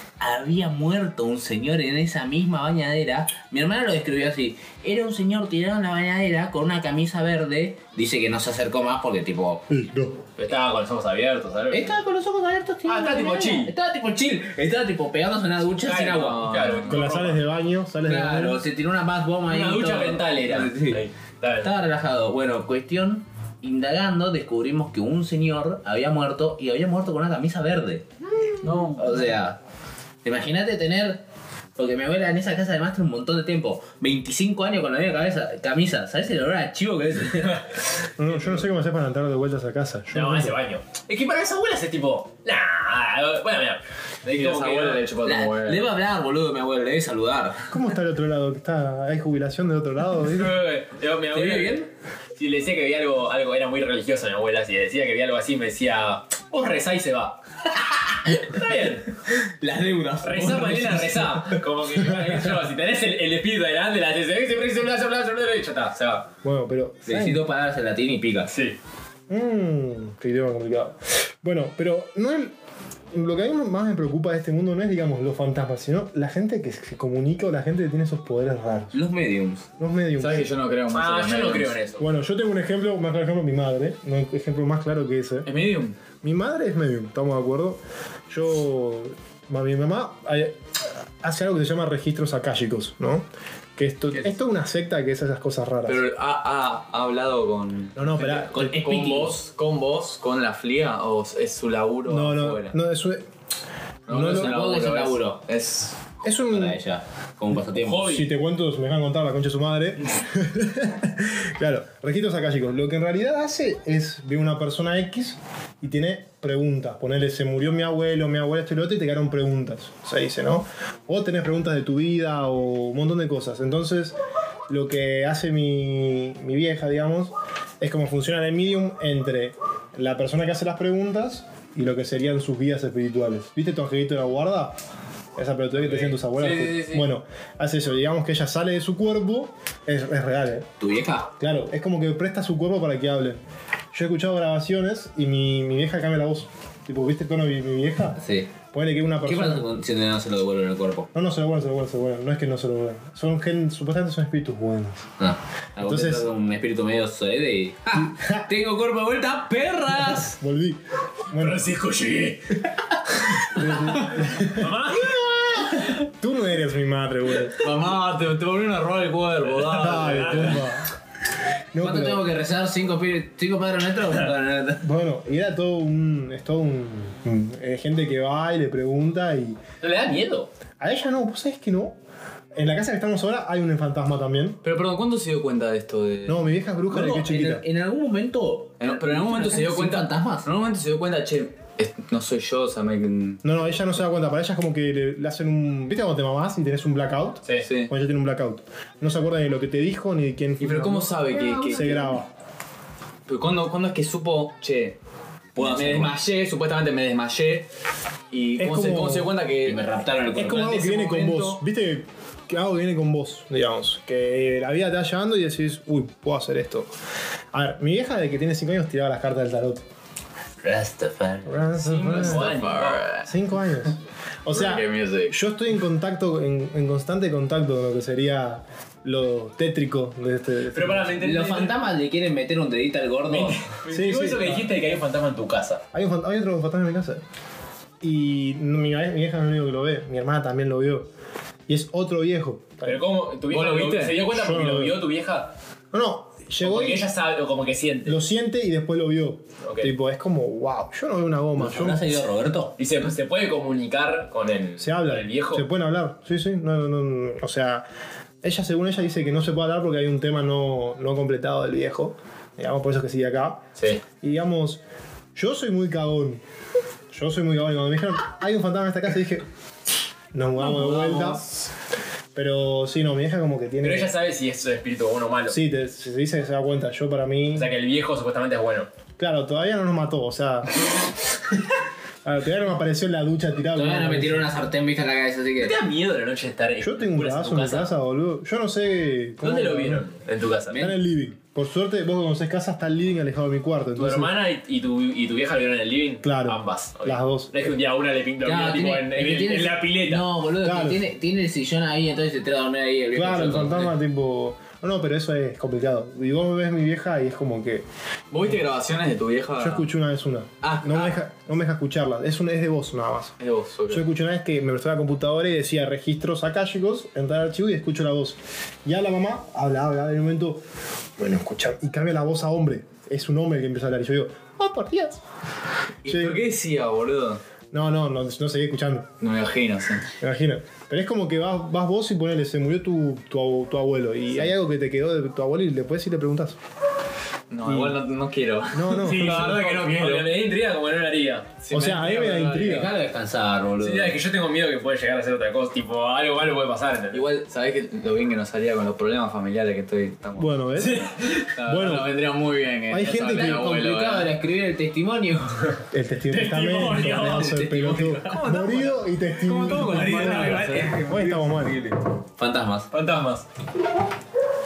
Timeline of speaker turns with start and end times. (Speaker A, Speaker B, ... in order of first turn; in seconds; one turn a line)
Speaker A: 0.2-9.7
Speaker B: 9.7-10.2
Speaker C: 10.4-12.0
Speaker A: 11.7-16.6
Speaker C: 12.9-13.7
Speaker C: 15.8-17.4
Speaker D: 16.2-17.0
Speaker B: 16.9-18.6
Speaker A: 18.1-21.0
Speaker C: 19.5-21.7
Speaker A: 21.6-29.6
Speaker D: 28.6-29.2
Speaker A: 30.2-31.2
Speaker A: 31.8-37.6
Speaker C: 37.4-37.6
Speaker B: 38.2-40.5
Speaker C: 38.3-38.6
Speaker C: 40.1-45.0
Speaker D: 44.2-45.9
Speaker A: 45.2-47.7
Speaker B: 47.7-50.6
Speaker C: 50.3-57.4
Speaker A: 51.3-51.9
Speaker C: 58.4-59.2
Speaker A: 59.6-61.6
Speaker C: 60.2-66.3
Speaker B: 66.4-67.5
Speaker A: 67.1-68.5
Speaker C: 68.5-68.8
Speaker B: 69.3-72.5
Speaker B: 73.1-79.0
Speaker A: 78.9-79.7
Speaker B: 79.8-80.5
Speaker D: 80.2-81.8
Speaker C: 80.9-82.1
Speaker B: 82.0-85.5
Speaker D: 85.5-86.0
Speaker B: 86.2-90.6
Speaker B: 91.2-96.0
Speaker D: 95.9-102.8
Speaker B: 98.0-98.8
Speaker A: 98.5-99.4
Speaker B: 102.1-103.3
Speaker B: 104.1-104.6
Speaker D: 104.1-106.0
Speaker A: 104.1-105.4
Speaker B: 106.2-106.8
Speaker A: 106.5-108.1
Speaker C: 107.7-108.3
Speaker B: 108.0-124.2
Speaker B: 124.7-134.8
Speaker B: 135.4-140.7
Speaker C: 135.8-136.8
Speaker A: 140.8-141.3
Speaker B: 141.4-143.4
Speaker B: 143.9-148.2
Speaker A: 148.2-148.5
Speaker B: 148.7-149.7
Speaker A: 149.3-151.1
Speaker B: 151.1-155.1
Speaker A: 155.2-160.4
Speaker B: 155.8-156.3
Speaker B: 158.0-158.5
Speaker B: 160.1-161.7
Speaker C: 161.3-162.6
Speaker B: 163.4-164.8
Speaker C: 163.7-165.9
Speaker B: 166.1-167.7
Speaker D: 167.6-170.6
Speaker C: 169.7-170.7
Speaker B: 169.7-170.9
Speaker B: 171.7-172.2
Speaker A: 171.8-174.9
Speaker B: 174.8-179.6
Speaker C: 179.8-180.5
Speaker B: 180.8-182.0
Speaker B: 182.6-184.6
Speaker D: 184.6-186.5
Speaker B: 186.3-187.7
Speaker A: 186.9-190.5
Speaker D: 188.8-193.4
Speaker B: 193.4-202.3
Speaker D: 197.6-197.9
Speaker D: 200.6-202.2
Speaker A: 201.3-201.9
Speaker D: 203.3-205.0
Speaker A: 205.6-206.2
Speaker D: 205.6-207.7
Speaker D: 208.3-209.9
Speaker B: 208.6-209.3
Speaker A: 209.7-210.8
Speaker B: 210.3-216.9
Speaker D: 210.5-211.6
Speaker B: 217.5-219.8
Speaker A: 220.6-221.7
Speaker B: 221.4-222.6
Speaker C: 221.8-223.1
Speaker D: 222.2-223.3
Speaker B: 223.2-231.2
Speaker D: 224.5-225.4
Speaker C: 230.7-231.8
Speaker A: 231.2-233.6
Speaker C: 233.3-235.8
Speaker B: 233.9-234.7
Speaker B: 235.9-237.2
Speaker B: 238.0-241.1
Speaker B: 241.7-243.1
Speaker C: 242.8-245.5
Speaker D: 243.5-244.2
Speaker B: 244.3-245.0
Speaker B: 245.9-247.1
Speaker C: 246.6-248.2
Speaker B: 248.1-252.1
Speaker C: 249.6-249.9
Speaker A: 251.6-252.8
Speaker C: 252.8-255.7
Speaker B: 254.8-257.9
Speaker B: 258.4-263.6
Speaker C: 263.8-264.0
Speaker B: 264.2-264.8
Speaker B: 265.4-266.4
Speaker B: 267.1-269.4
Speaker B: 270.3-271.4
Speaker D: 270.6-271.7
Speaker B: 272.4-274.1
Speaker C: 273.8-275.6
Speaker B: 275.5-277.7
Speaker C: 277.5-278.9
Speaker B: 279.2-280.9
Speaker B: 282.2-284.5
Speaker A: 283.8-285.7
Speaker C: 285.6-287.9
Speaker B: 286.8-290.1
Speaker C: 289.4-290.9
Speaker A: 290.7-290.9
Speaker B: 290.8-294.3
Speaker C: 294.0-300.3
Speaker B: 296.2-297.7
Speaker A: 298.4-303.9
Speaker B: 300.6-301.0
Speaker B: 303.1-307.9
Speaker D: 308.3-309.9
Speaker B: 309.6-313.4
Speaker D: 310.6-311.2
Speaker D: 313.4-314.1
Speaker B: 313.9-320.6
Speaker B: 321.2-325.2
Speaker D: 326.0-327.4
Speaker B: 326.1-326.4
Speaker B: 327.7-329.1
Speaker D: 329.2-330.1
Speaker B: 330.2-336.6
Speaker D: 337.5-340.3
Speaker B: 337.6-338.0
Speaker B: 338.7-339.6
Speaker C: 339.0-341.6
Speaker D: 341.6-342.9
Speaker B: 341.7-342.9
Speaker A: 342.6-344.2
Speaker C: 343.8-347.2
Speaker D: 347.1-354.3
Speaker B: 350.4-351.1
Speaker C: 350.8-351.5
Speaker B: 351.6-352.1
Speaker B: 352.9-353.6
Speaker A: 353.3-355.7
Speaker B: 355.9-361.8
Speaker C: 356.3-358.4
Speaker A: 357.1-358.2
Speaker D: 358.3-361.4
Speaker C: 359.7-361.7
Speaker A: 362.4-362.9
Speaker C: 362.9-363.4